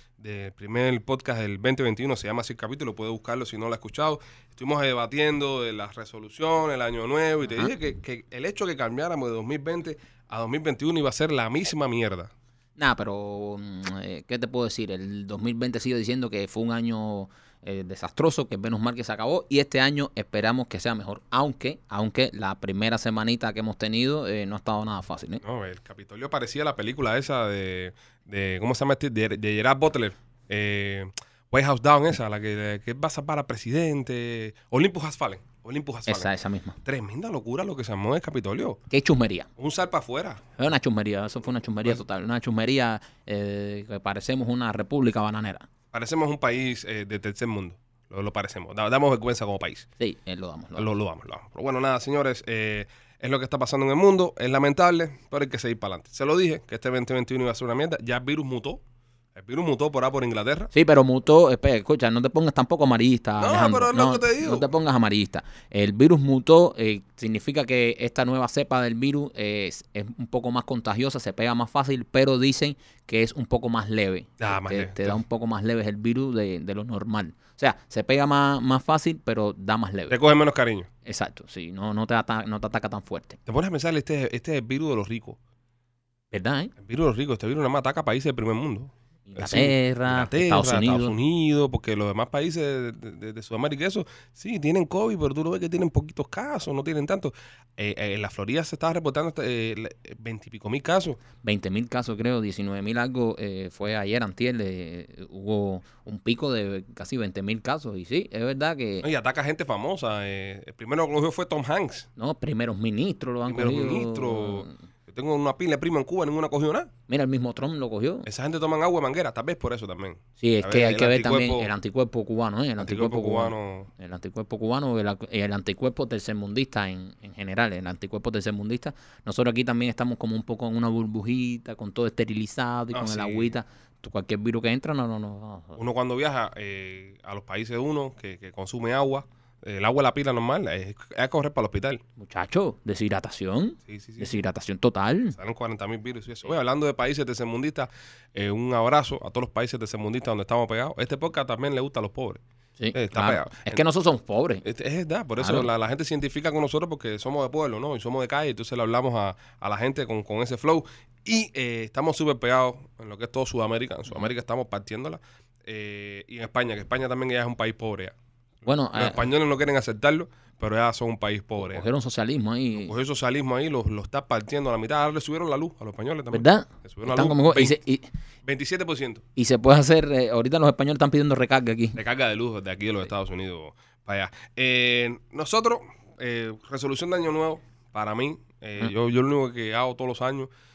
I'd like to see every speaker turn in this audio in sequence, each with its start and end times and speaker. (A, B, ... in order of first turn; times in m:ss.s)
0:00.2-0:12.3 A
0:07.4-0:07.7 B
0:12.8-0:25.4 B
0:25.4-0:36.3 A
0:36.1-0:36.8 B
0:36.8-0:38.8 A
0:38.9-0:39.5 B
0:39.6-0:40.4 A
0:40.6-0:45.7 B
0:45.9-0:49.9 A
0:50.0-0:50.9 B
0:50.8-0:58.8 A
0:59.3-1:00.7 A
1:00.7-1:20.2 B
1:03.4-1:04.7 A
1:14.4-1:15.2 A
1:20.1-1:20.9 A
1:21.0-1:23.4 B
1:23.4-1:25.4 A
1:26.3-1:26.7 B
1:26.8-1:41.2 A
1:29.3-1:31.1 B
1:41.4-1:49.0 B
1:49.0-1:52.1 A
1:52.2-1:54.7 B
1:53.4-1:56.9 A
1:57.1-1:58.3 B
1:58.2-2:01.7 A
2:00.4-2:15.8 B
2:02.8-2:03.9 A
2:12.9-2:13.5 A
2:15.8-2:22.0 A
2:22.2-2:25.4 B
2:23.9-2:24.4 A
2:25.3-2:32.4 A
2:32.8-2:34.6 B
2:32.9-2:33.8 A
2:34.6-2:48.1 A
2:35.4-2:35.7 B
2:48.6-2:49.2 B
2:48.9-2:51.9 A
2:51.6-2:52.9 B
2:52.8-2:57.8 A
2:56.3-2:58.1 B
2:58.4-2:59.2 A
2:59.4-3:02.0 B
3:02.0-3:10.5 A